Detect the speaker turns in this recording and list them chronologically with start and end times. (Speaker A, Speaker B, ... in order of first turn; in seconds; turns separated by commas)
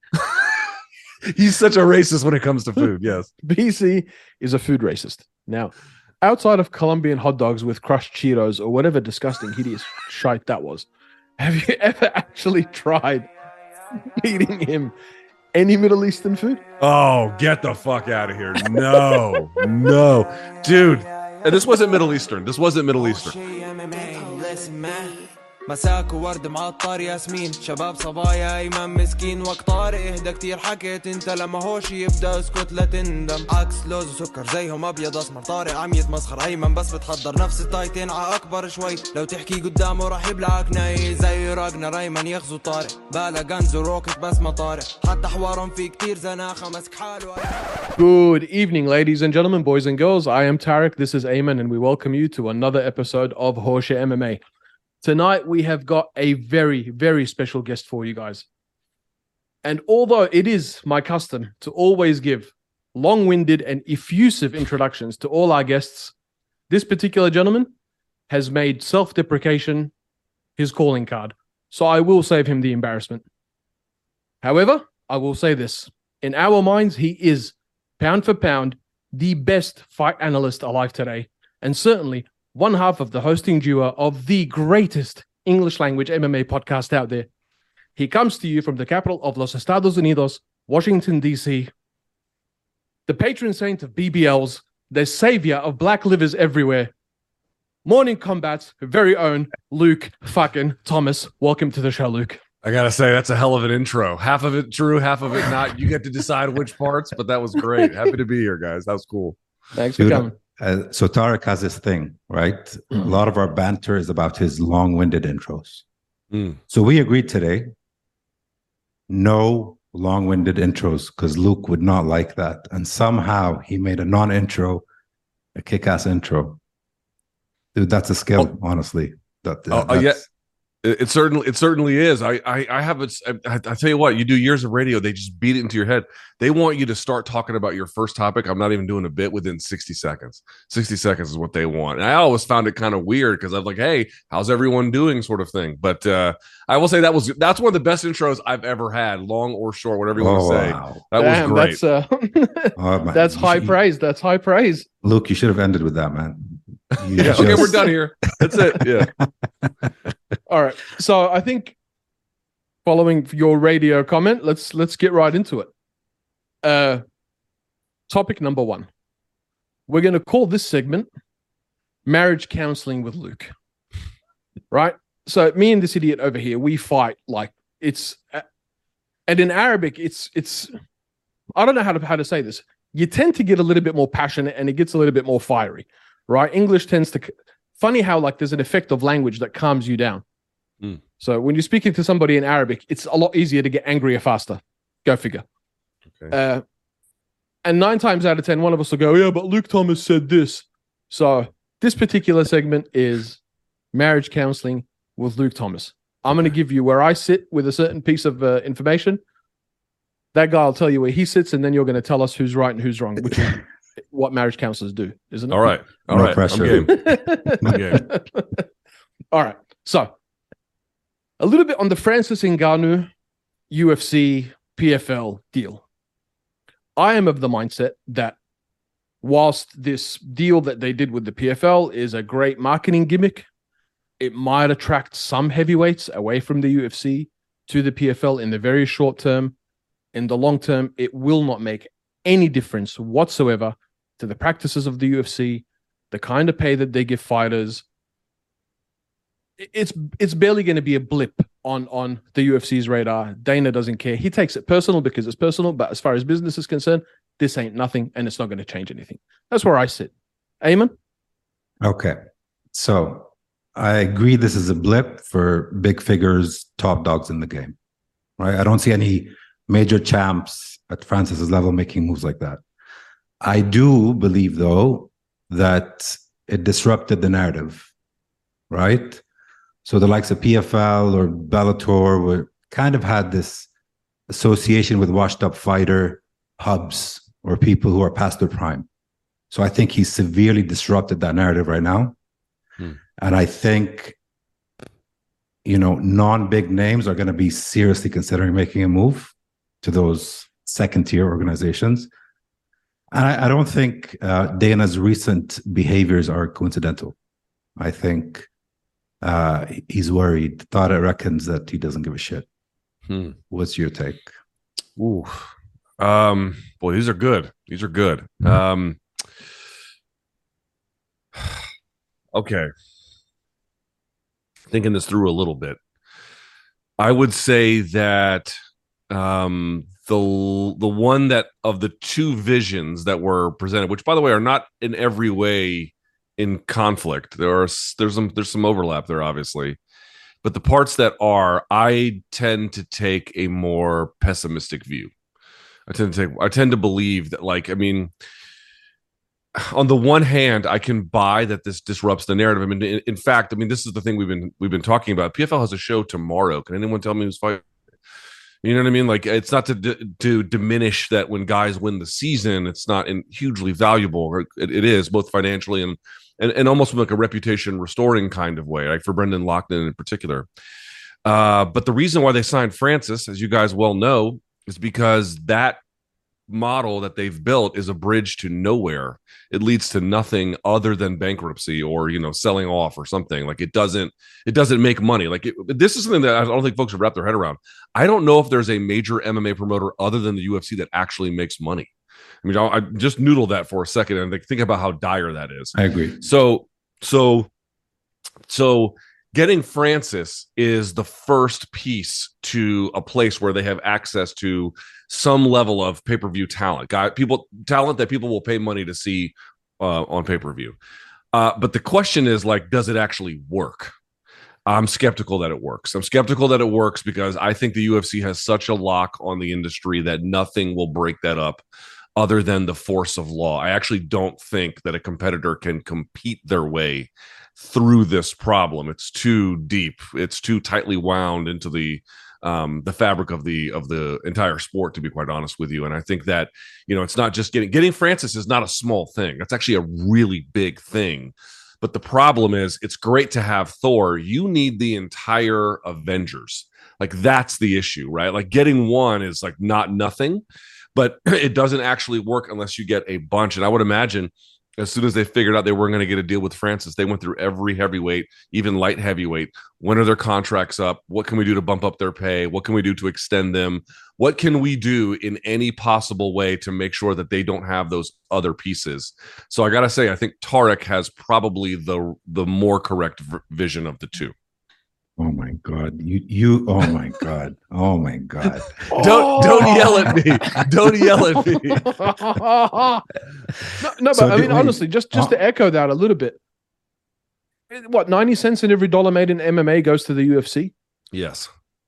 Speaker A: 1.3-3.3, Speaker B: 3.4-10.9, Speaker B: 11.4-13.3, Speaker B: 14.2-14.9, Speaker B: 15.5-16.6, Speaker A: 16.8-23.4, Speaker C: 23.0-47.7, Speaker B: 48.0-54.4, Speaker B: 55.0-58.5, Speaker B: 59.6-66.1, Speaker B: 66.7-67.7, Speaker B: 68.3-69.9, Speaker B: 70.6-73.2, Speaker B: 74.4-87.3, Speaker B: 88.0-91.7, Speaker B: 93.1-96.9, Speaker B: 97.8-102.4, Speaker A: 102.6-109.4, Speaker B: 109.8-110.3, Speaker D: 110.0-115.8, Speaker A: 116.3-116.6, Speaker D: 116.7-117.7, Speaker D: 119.1-124.8, Speaker D: 125.6-126.6, Speaker D: 127.8-130.2, Speaker A: 129.7-130.2, Speaker A: 130.8-151.8, Speaker D: 150.2-151.0, Speaker B: 151.2-154.9, Speaker D: 152.8-153.8, Speaker D: 155.0-159.7, Speaker A: 156.9-159.1, Speaker B: 160.5-161.8, Speaker B: 162.8-165.7, Speaker B: 166.6-167.0, Speaker B: 168.1-168.9, Speaker B: 169.9-171.1, Speaker B: 172.1-173.5, Speaker B: 174.7-178.4, Speaker B: 179.3-180.7, Speaker B: 181.6-190.2, Speaker B: 191.2-195.4, Speaker B: 196.3-196.6, Speaker B: 197.7-203.4, Speaker B: 203.9-209.2, Speaker B: 210.3-215.7, Speaker A: 215.5-217.1, Speaker D: 216.1-218.0, Speaker B: 216.7-218.6, Speaker A: 217.6-218.0, Speaker B: 219.3-220.1, Speaker B: 221.4-223.1, Speaker B: 223.7-225.8, Speaker B: 227.0-228.4, Speaker B: 229.2-233.5, Speaker B: 234.2-239.6, Speaker B: 240.1-247.8, Speaker B: 249.6-260.9, Speaker D: 261.8-262.2, Speaker D: 262.7-267.8, Speaker D: 268.4-272.6, Speaker D: 273.4-277.9, Speaker D: 278.7-279.2, Speaker D: 279.9-283.7, Speaker D: 284.3-288.9, Speaker D: 289.5-292.1, Speaker D: 293.2-294.2, Speaker D: 295.6-302.1, Speaker D: 303.1-307.2, Speaker D: 307.8-308.5, Speaker D: 309.2-312.5, Speaker A: 313.1-313.4, Speaker D: 313.5-314.3, Speaker A: 315.0-319.0, Speaker A: 321.4-321.6, Speaker A: 322.3-322.7, Speaker A: 324.7-325.8, Speaker A: 327.0-328.6, Speaker A: 329.1-339.8, Speaker A: 340.4-345.1, Speaker A: 345.9-348.1, Speaker A: 349.6-357.6, Speaker A: 358.6-370.5, Speaker A: 371.2-375.8, Speaker A: 376.5-391.9, Speaker A: 392.4-397.5, Speaker D: 395.8-396.2, Speaker A: 398.5-410.8, Speaker A: 411.3-413.9, Speaker A: 414.7-421.6, Speaker A: 422.2-450.4, Speaker A: 451.0-474.3, Speaker D: 475.2-480.1, Speaker A: 478.8-482.0, Speaker B: 478.9-480.7, Speaker B: 481.8-483.1, Speaker B: 483.8-486.4, Speaker D: 484.1-485.4, Speaker B: 487.7-490.7, Speaker A: 491.1-491.5